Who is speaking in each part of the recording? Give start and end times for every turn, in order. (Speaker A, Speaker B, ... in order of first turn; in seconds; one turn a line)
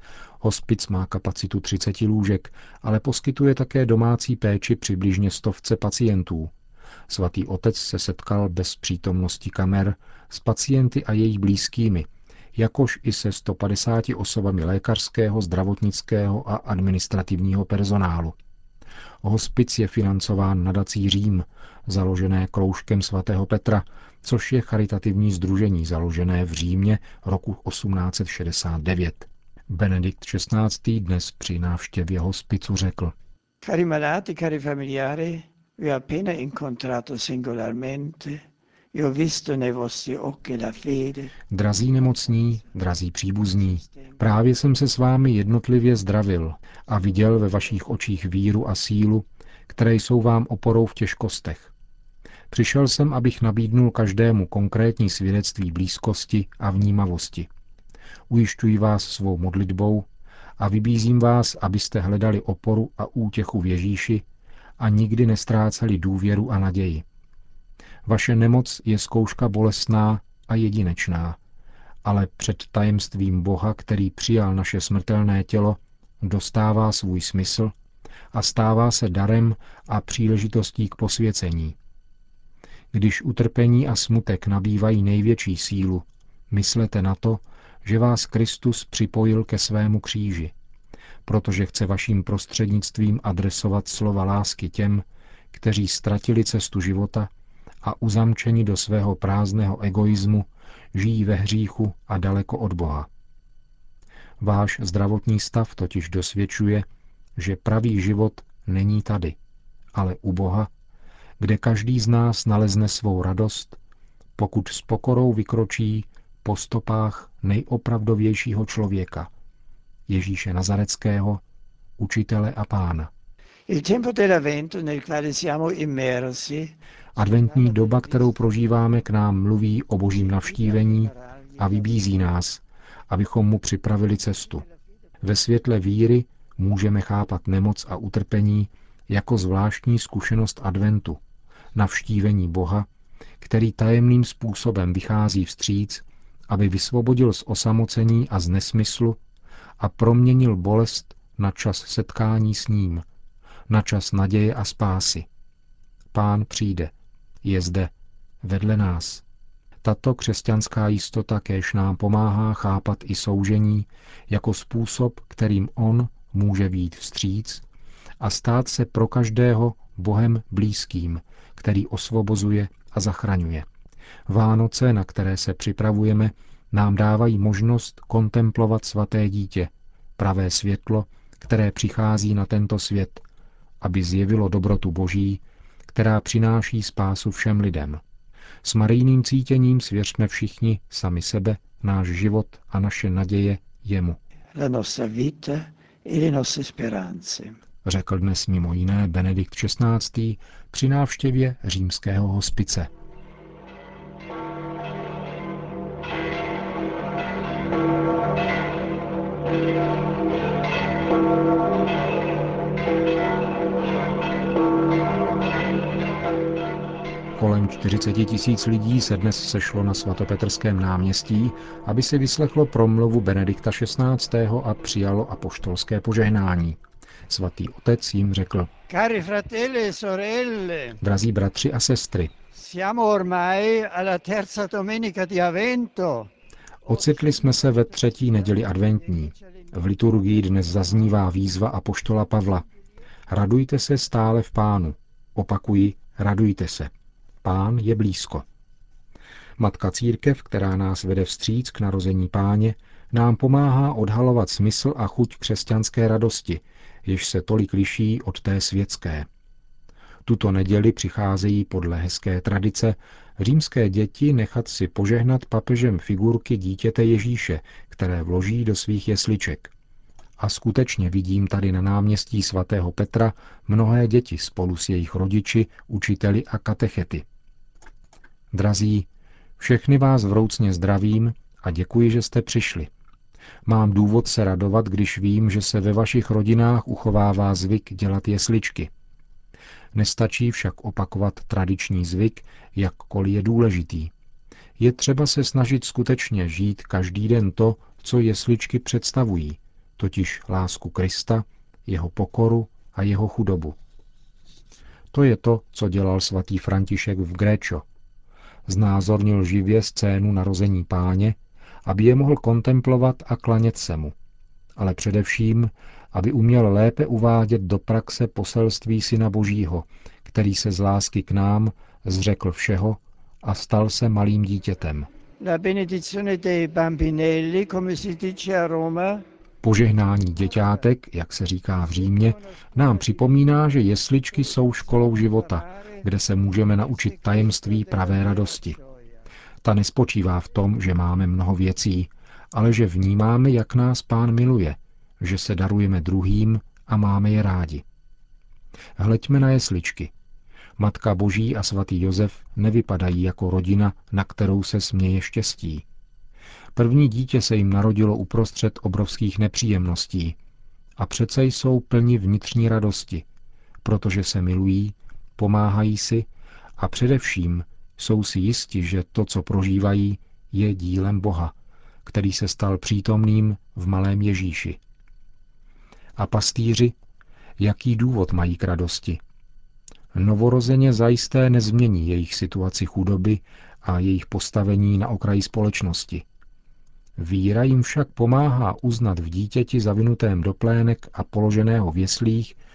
Speaker A: 0.4-6.5
Speaker A: 7.1-18.4
Speaker A: 19.2-33.1
Speaker B: 33.6-41.4
Speaker A: 41.5-51.7
Speaker A: 52.5-57.5
Speaker A: 58.3-60.1
Speaker A: 60.6-64.2
Speaker A: 64.8-67.0
Speaker A: 68.1-71.4
Speaker A: 72.0-77.7
Speaker A: 78.3-81.8
Speaker A: 82.9-90.5
Speaker A: 91.3-97.3
Speaker A: 97.8-103.1
Speaker A: 104.4-106.9
Speaker A: 107.4-109.4
Speaker A: 109.9-110.7
Speaker A: 111.4-113.8
Speaker A: 114.4-119.3
Speaker A: 120.1-121.4
Speaker A: 122.0-123.1
Speaker B: 123.7-128.3
Speaker A: 127.1-134.7
Speaker B: 130.3-132.0
Speaker A: 135.2-141.2
Speaker A: 141.8-142.9
Speaker A: 143.4-149.2
Speaker A: 149.8-153.1
Speaker A: 153.7-155.3
Speaker A: 156.1-157.9
Speaker A: 158.4-159.2
Speaker A: 159.8-167.6
Speaker A: 168.2-173.7
Speaker A: 174.3-183.2
Speaker A: 183.8-188.0
Speaker A: 188.6-194.2
Speaker B: 194.5-197.6
Speaker A: 197.8-202.9
Speaker A: 217.4-226.8
Speaker A: 227.3-228.7
Speaker B: 228.9-231.0
Speaker A: 231.0-232.3
Speaker B: 232.5-236.3
Speaker A: 236.8-242.7
Speaker B: 236.9-239.7
Speaker A: 243.3-246.9
Speaker A: 247.4-248.4
Speaker A: 249.6-259.3
Speaker A: 260.2-269.7
Speaker A: 270.4-277.2
Speaker A: 278.5-279.1
Speaker A: 279.6-282.9
Speaker A: 283.7-288.9
Speaker A: 289.9-294.1
Speaker A: 294.8-303.8
Speaker A: 305.1-307.9
Speaker A: 308.7-314.1
Speaker A: 314.8-325.1
Speaker B: 325.4-329.2
Speaker A: 329.6-338.8
Speaker B: 332.0-333.2
Speaker B: 334.5-336.0
Speaker B: 336.7-339.2
Speaker A: 339.6-347.8
Speaker A: 349.0-350.1
Speaker A: 350.8-355.9
Speaker A: 356.8-360.4
Speaker A: 361.0-363.2
Speaker A: 363.8-366.3
Speaker A: 366.8-371.5
Speaker A: 372.1-374.8
Speaker A: 376.2-376.9
Speaker A: 377.6-379.2
Speaker A: 380.1-386.2
Speaker A: 387.2-392.6